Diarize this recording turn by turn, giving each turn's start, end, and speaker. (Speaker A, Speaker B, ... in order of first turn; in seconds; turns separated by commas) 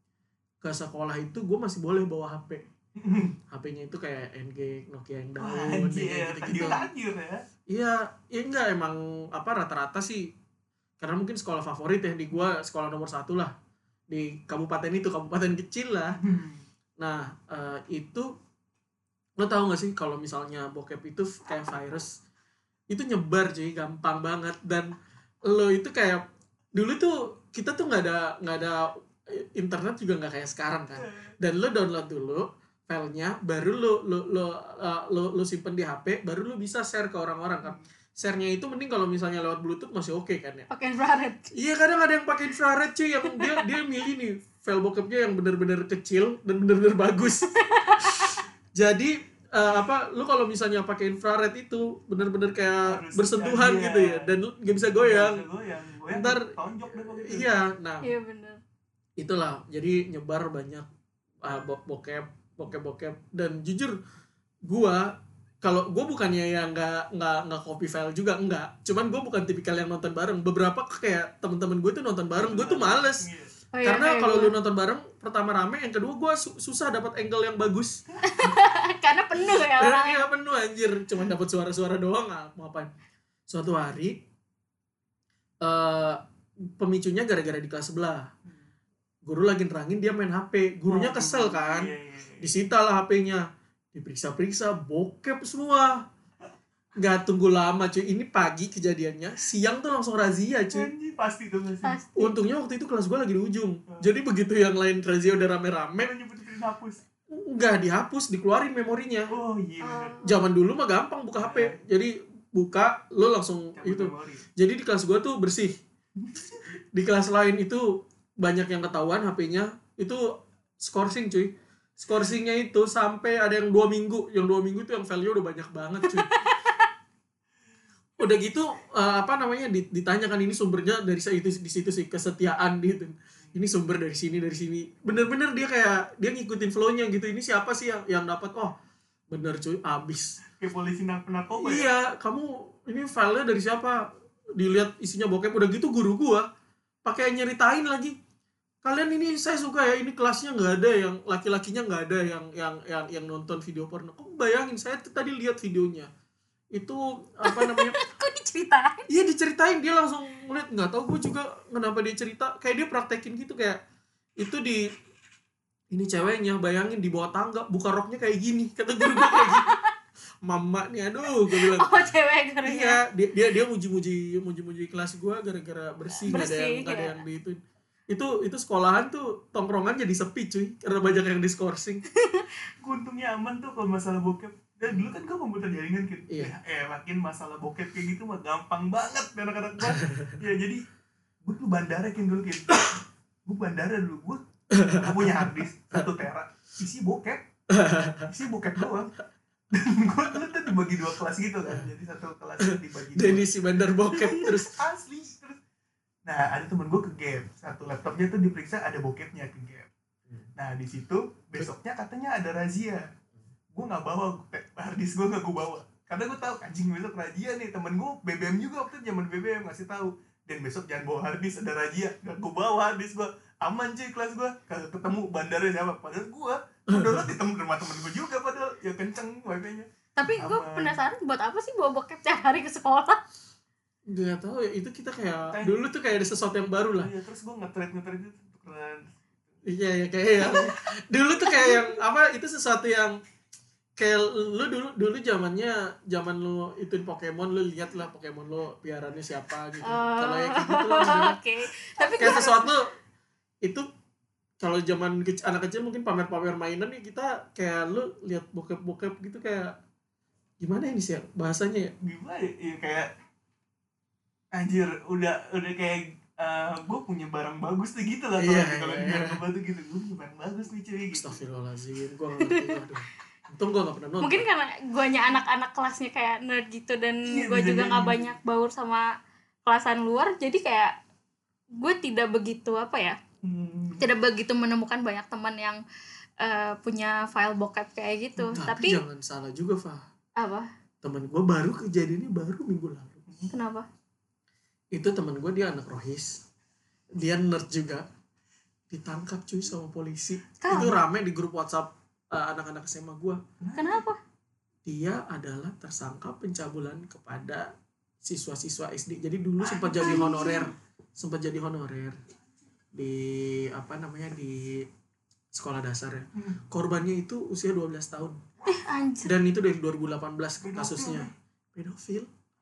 Speaker A: 0.6-2.6, Speaker B: 3.0-3.4, Speaker A: 3.5-6.9, Speaker B: 5.4-7.4, Speaker C: 6.6-6.9, Speaker A: 7.7-10.3, Speaker A: 11.0-13.5, Speaker A: 14.1-16.2, Speaker B: 16.2-16.6, Speaker A: 17.0-18.3, Speaker A: 19.4-22.1, Speaker A: 22.9-40.7, Speaker B: 30.9-31.3, Speaker C: 40.7-41.5, Speaker A: 41.5-55.4, Speaker C: 43.3-43.6, Speaker C: 47.5-48.4, Speaker B: 52.8-54.3, Speaker B: 55.0-57.5, Speaker A: 56.1-58.1, Speaker C: 58.0-58.6, Speaker A: 59.2-60.9, Speaker A: 61.4-64.0, Speaker A: 64.7-73.3, Speaker B: 72.4-73.5, Speaker C: 73.7-74.5, Speaker A: 73.8-78.0, Speaker C: 78.2-80.2, Speaker A: 79.5-82.9, Speaker A: 83.5-84.2, Speaker A: 85.6-88.3, Speaker A: 89.2-96.0, Speaker B: 90.9-92.5, Speaker A: 97.0-100.9, Speaker B: 100.7-102.0, Speaker C: 101.8-102.3, Speaker A: 102.2-106.1, Speaker B: 106.0-107.0, Speaker A: 107.3-109.3, Speaker B: 109.3-110.2, Speaker C: 109.8-110.2, Speaker A: 110.2-115.8, Speaker B: 111.4-111.8, Speaker B: 113.8-114.5, Speaker B: 116.2-116.6, Speaker A: 116.9-126.3, Speaker C: 126.0-126.8, Speaker A: 128.2-138.7, Speaker A: 139.3-140.4, Speaker B: 140.5-141.9, Speaker A: 141.6-146.5, Speaker A: 147.0-148.2, Speaker A: 148.8-156.1, Speaker A: 156.7-157.9, Speaker C: 157.4-159.1, Speaker A: 159.1-163.8, Speaker A: 164.4-164.9, Speaker A: 165.9-169.7, Speaker C: 169.1-169.9, Speaker A: 170.4-171.9, Speaker C: 171.5-173.0, Speaker A: 172.6-182.0, Speaker C: 176.2-177.2, Speaker C: 182.1-182.5, Speaker B: 182.8-190.8, Speaker A: 186.3-186.6, Speaker A: 189.9-190.4, Speaker B: 191.4-194.4, Speaker A: 194.7-196.1, Speaker B: 195.0-197.4, Speaker A: 197.7-198.3, Speaker B: 198.2-199.1, Speaker B: 199.7-203.5, Speaker A: 202.6-204.8, Speaker B: 204.1-205.6, Speaker B: 206.2-209.9, Speaker B: 210.6-213.1, Speaker B: 213.7-231.0, Speaker A: 226.9-227.3, Speaker C: 230.2-233.2, Speaker A: 234.1-237.1, Speaker B: 235.5-235.8, Speaker B: 236.9-239.6, Speaker A: 239.6-243.2, Speaker C: 240.4-240.7, Speaker C: 241.5-241.8, Speaker A: 244.0-251.4, Speaker C: 249.8-252.7, Speaker B: 252.1-252.5, Speaker A: 252.2-252.9, Speaker A: 254.6-259.8, Speaker A: 260.6-261.9, Speaker B: 262.0-263.1, Speaker B: 264.5-271.3, Speaker A: 268.4-269.4, Speaker A: 271.1-274.4, Speaker C: 272.4-272.8, Speaker C: 274.2-279.1, Speaker B: 277.2-278.3, Speaker C: 279.6-280.9, Speaker C: 281.7-283.2, Speaker B: 283.4-284.1, Speaker C: 284.0-285.8, Speaker C: 286.4-289.0, Speaker B: 288.4-288.6, Speaker A: 288.5-290.0, Speaker C: 290.4-290.7, Speaker A: 291.0-293.3, Speaker B: 293.3-293.5, Speaker C: 293.5-293.9, Speaker A: 294.9-296.4, Speaker A: 297.1-298.1, Speaker A: 298.9-303.4, Speaker C: 300.6-300.9, Speaker B: 300.7-301.0, Speaker B: 303.6-304.0, Speaker C: 303.8-304.2, Speaker A: 304.8-307.7, Speaker A: 308.2-312.2, Speaker B: 309.6-310.6, Speaker C: 310.0-310.7, Speaker A: 312.9-314.9, Speaker A: 315.5-318.4, Speaker C: 318.6-319.3, Speaker A: 319.2-322.3, Speaker B: 320.6-321.3